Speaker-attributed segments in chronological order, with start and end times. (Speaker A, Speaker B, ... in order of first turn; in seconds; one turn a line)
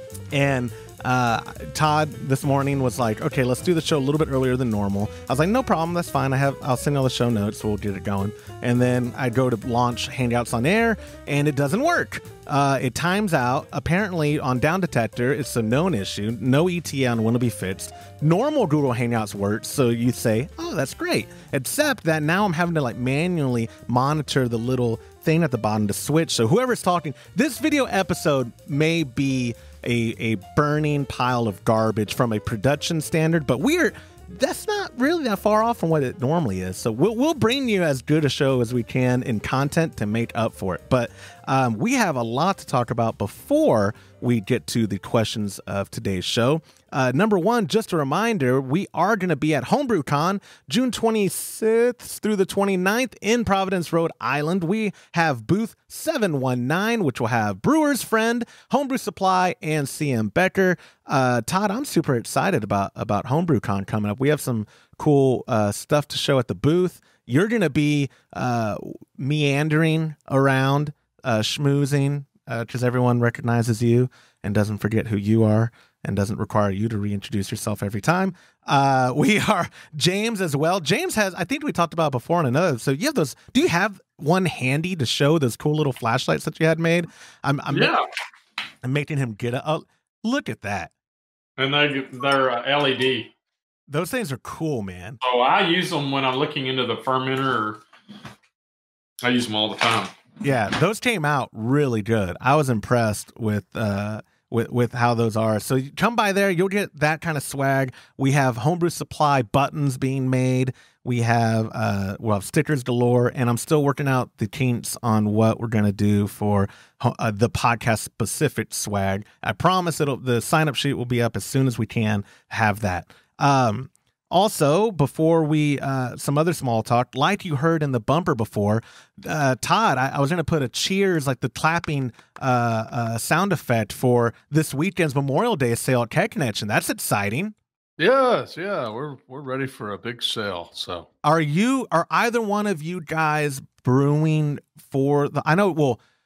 Speaker A: 0.3-87.9
Speaker B: 87.7-88.0
Speaker A: 88.8-90.9
Speaker B: 91.6-93.3
Speaker A: 93.9-95.2
Speaker B: 95.2-97.8
Speaker B: 99.2-100.1
Speaker A: 100.4-137.5
Speaker C: 138.0-141.1
Speaker A: 141.2-146.0